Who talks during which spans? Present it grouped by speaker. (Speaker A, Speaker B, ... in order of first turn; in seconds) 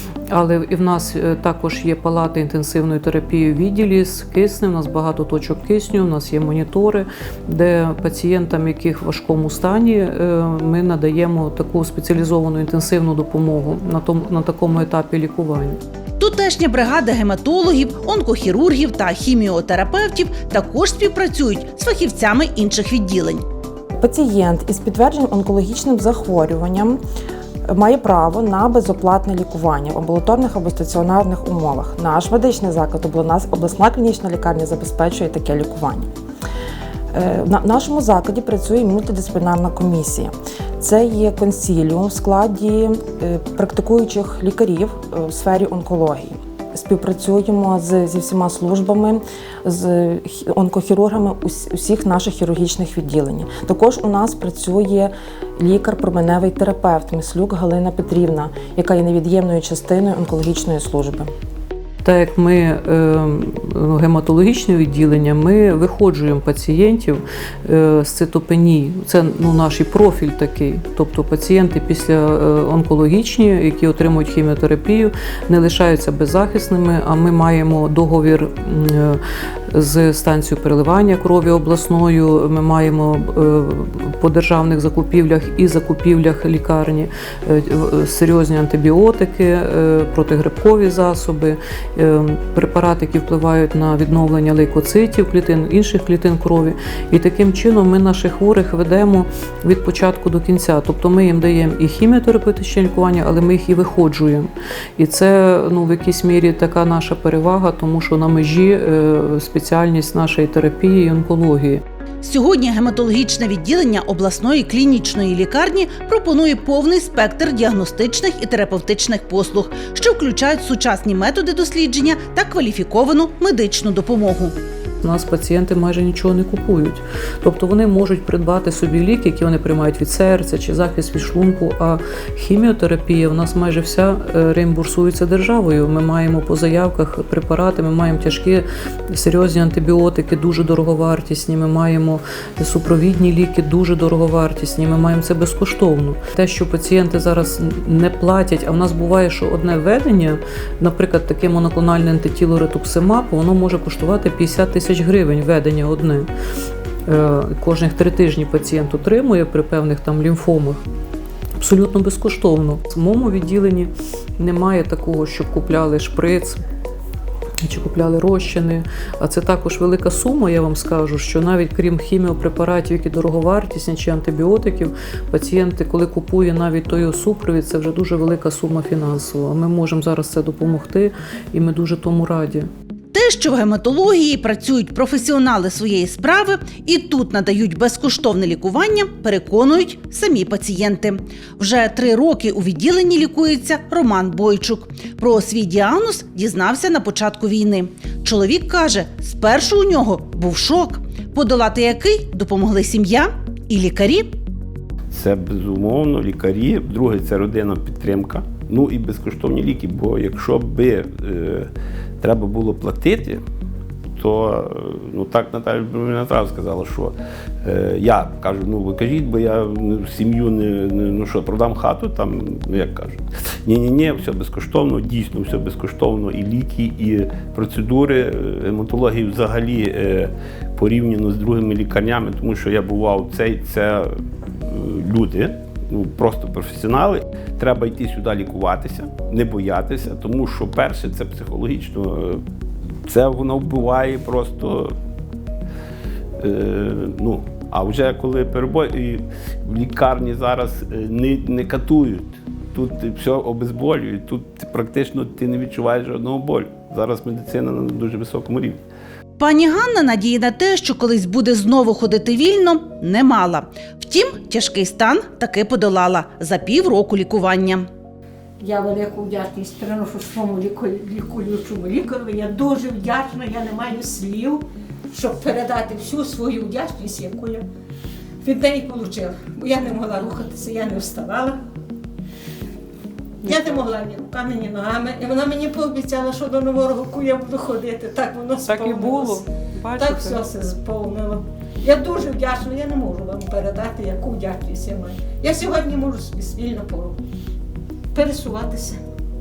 Speaker A: 0.3-15.8, 62.0-111.8, 125.0-156.3, 157.1-160.8, 161.6-166.6, 167.6-182.7, 283.4-283.9, 288.6-290.4
Speaker B: 16.2-23.4, 112.2-124.6, 183.1-204.3, 259.4-267.9
Speaker C: 24.0-27.0, 27.7-36.1, 37.1-61.3
Speaker D: 205.1-211.7, 212.2-213.4, 214.2-234.1, 234.7-242.4, 243.1-244.9, 246.4-258.8
Speaker E: 268.6-277.6, 278.4-281.6, 283.4-297.2, 298.1-299.0